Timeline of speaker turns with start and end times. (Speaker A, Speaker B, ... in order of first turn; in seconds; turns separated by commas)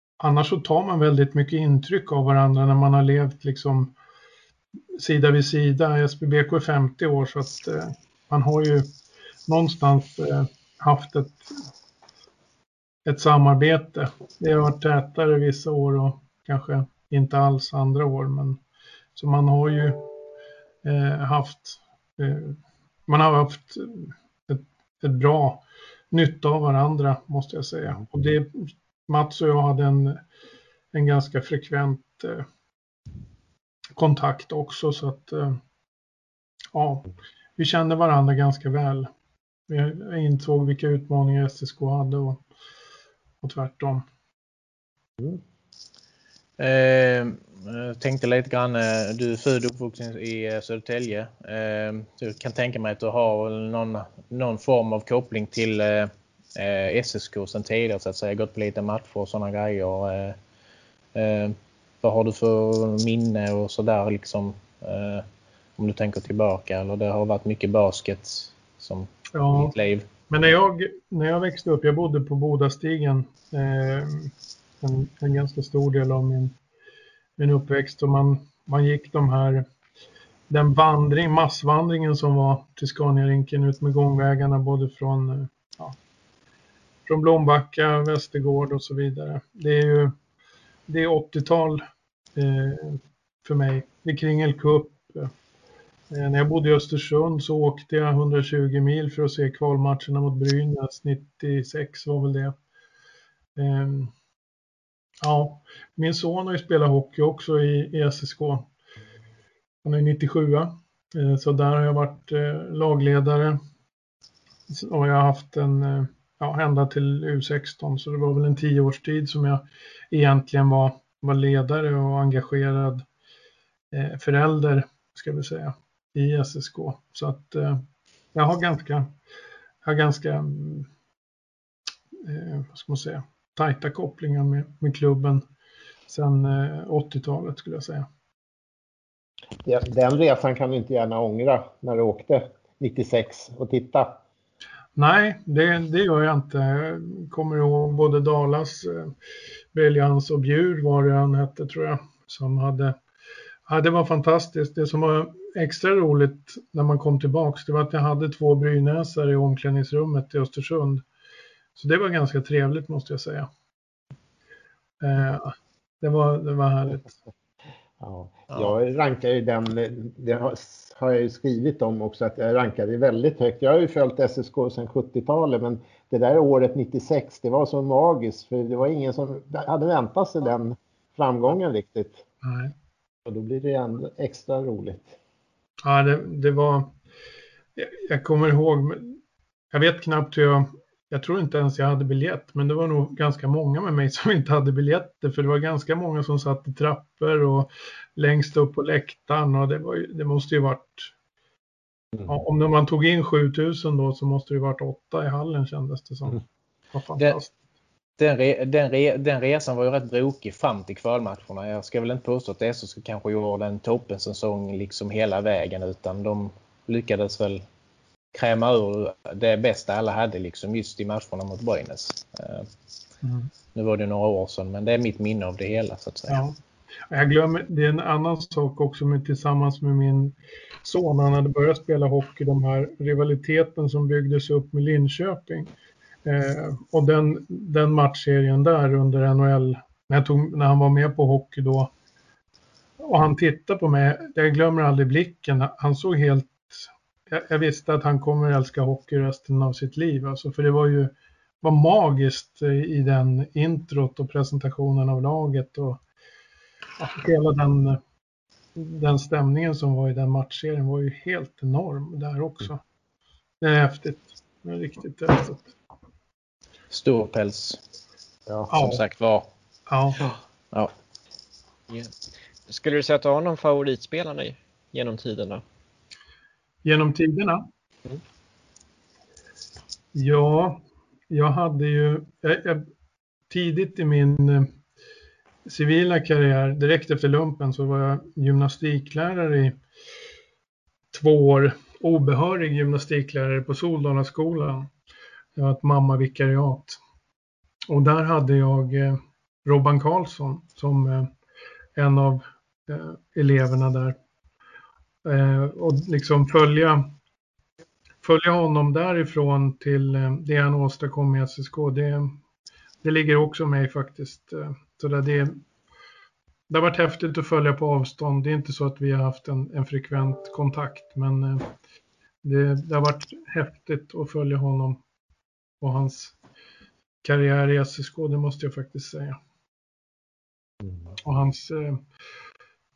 Speaker A: 0.2-3.9, Speaker A: 5.0-8.9, Speaker A: 9.5-11.5, Speaker A: 13.0-18.6, Speaker A: 19.1-20.0, Speaker A: 20.8-30.2, Speaker A: 30.9-32.4, Speaker A: 34.0-35.6, Speaker A: 36.7-39.1, Speaker A: 39.7-42.4, Speaker A: 43.4-44.0, Speaker B: 46.6-60.4, Speaker B: 61.1-65.2, Speaker B: 65.8-70.1, Speaker A: 69.3-69.7, Speaker A: 70.3-76.5, Speaker A: 77.4-79.6, Speaker A: 80.5-86.0, Speaker A: 87.1-90.1, Speaker A: 90.9-91.8, Speaker A: 92.3-95.3, Speaker A: 96.1-102.5, Speaker A: 103.5-104.1, Speaker A: 105.2-108.7, Speaker A: 109.8-113.6, Speaker A: 114.7-123.0, Speaker A: 123.9-127.8, Speaker A: 128.3-129.1, Speaker A: 129.8-130.9, Speaker A: 132.2-135.4, Speaker A: 136.1-138.1, Speaker C: 139.6-144.2, Speaker A: 144.9-149.1, Speaker A: 149.7-152.9, Speaker A: 153.7-161.0, Speaker A: 161.8-163.5, Speaker A: 165.0-167.1, Speaker C: 168.0-182.2, Speaker A: 182.4-182.7, Speaker C: 183.2-185.2, Speaker A: 185.8-186.9, Speaker A: 187.8-189.2, Speaker A: 189.7-201.1, Speaker A: 202.3-206.4, Speaker A: 206.9-207.5, Speaker B: 208.2-217.6, Speaker B: 218.3-222.7, Speaker A: 223.2-223.5, Speaker B: 223.7-226.4, Speaker A: 226.3-226.5, Speaker A: 227.1-235.7, Speaker A: 236.2-241.9, Speaker A: 243.0-256.0, Speaker A: 257.0-258.0, Speaker A: 258.8-262.8, Speaker A: 263.6-265.7, Speaker B: 266.9-267.8, Speaker B: 268.7-269.5, Speaker A: 268.7-269.0, Speaker A: 269.9-270.2, Speaker D: 272.7-275.6, Speaker A: 276.8-277.6, Speaker A: 280.1-280.8, Speaker A: 281.3-282.8, Speaker A: 283.5-284.7, Speaker A: 285.6-289.8, Speaker A: 291.1-294.9, Speaker A: 295.6-297.0, Speaker A: 297.9-301.3, Speaker A: 301.9-304.1, Speaker A: 305.2-307.1, Speaker A: 308.2-312.4, Speaker A: 313.0-315.6, Speaker A: 316.7-321.7, Speaker A: 322.4-325.0, Speaker A: 325.8-326.4, Speaker A: 327.2-329.4, Speaker A: 331.2-332.0